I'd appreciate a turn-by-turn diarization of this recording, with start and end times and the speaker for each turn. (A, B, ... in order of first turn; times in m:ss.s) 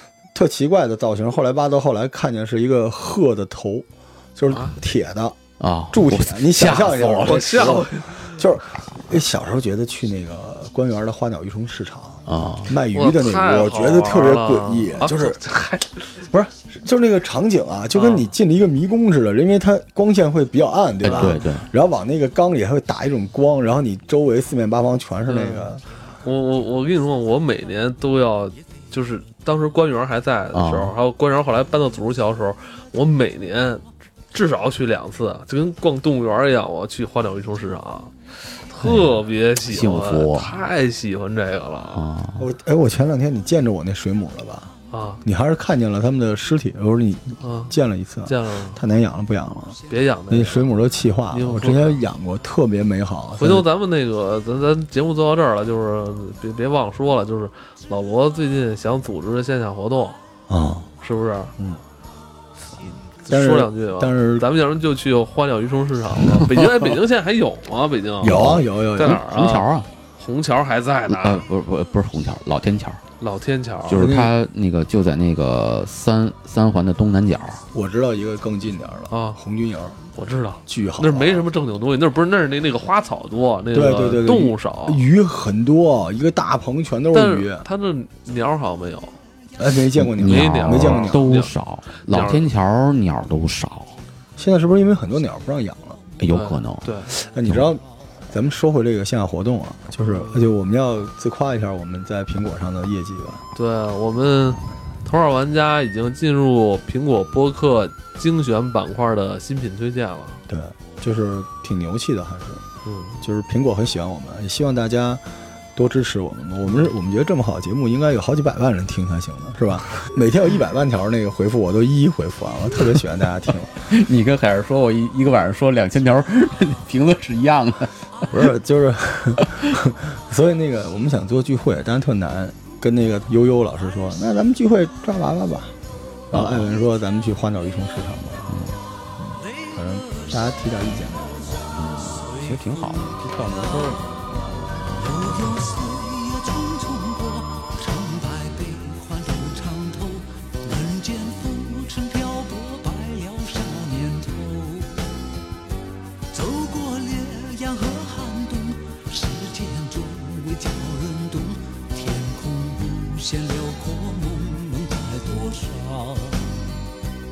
0:00.3-0:05.4 A
0:04.5-0:04.8 B
0:05.6-0:07.8 C
0:05.9-0:15.4 A
0:07.2-0:08.4 B
0:12.3-0:12.7 C
0:12.9-0:16.1 B
0:16.3-0:25.8 A
0:17.9-0:18.3 B
0:21.0-0:21.7 C
0:25.3-0:38.1 B
0:30.5-0:31.0 C
0:38.7-0:42.0 B
0:38.8-0:40.6 C
0:41.9-0:42.5 C
0:42.4-0:44.7 A
0:44.9-0:45.2 B
0:45.2-0:49.8 A
0:47.4-0:47.8 B
0:48.3-0:48.8 B
0:49.9-0:50.7 B
0:50.3-0:53.7 A
0:51.3-0:52.0 B
0:53.4-1:00.2 B
1:00.5-1:00.9 A
1:01.0-1:01.6 B
1:03.2-1:09.7 B
1:03.3-1:04.5 A
1:08.2-1:09.2 A
1:08.2-1:09.9 C
1:10.2-1:11.5 B
1:11.1-1:13.0 C
1:13.2-1:14.1 B
1:13.9-1:17.6 C
1:13.9-1:14.4 A
1:17.7-1:20.0 A
1:19.1-1:19.4 B
1:20.2-1:25.0 B
1:20.7-1:21.5 A
1:23.7-1:27.7 A
1:27.1-1:29.2 B
1:29.6-1:31.2 A
1:30.0-1:34.0 C
1:30.2-1:32.5 B
1:34.4-1:36.0 A
1:36.2-1:36.9 C
1:36.3-1:37.1 B
1:37.1-1:43.4 A
1:40.0-1:40.5 B
1:43.6-1:50.4 B
1:50.5-1:52.6 A
1:52.8-1:53.2 B
1:53.2-1:55.2 A
1:55.8-2:03.9 A
2:03.9-2:08.4 C
2:08.3-2:15.8 A
2:16.3-2:18.7 A
2:16.3-2:16.7 C
2:18.5-2:18.8 C
2:19.2-2:21.7 A
2:19.8-2:20.2 D
2:21.3-2:24.0 D
2:21.8-2:24.0 C
2:24.9-2:35.1 D
2:36.3-2:46.9 D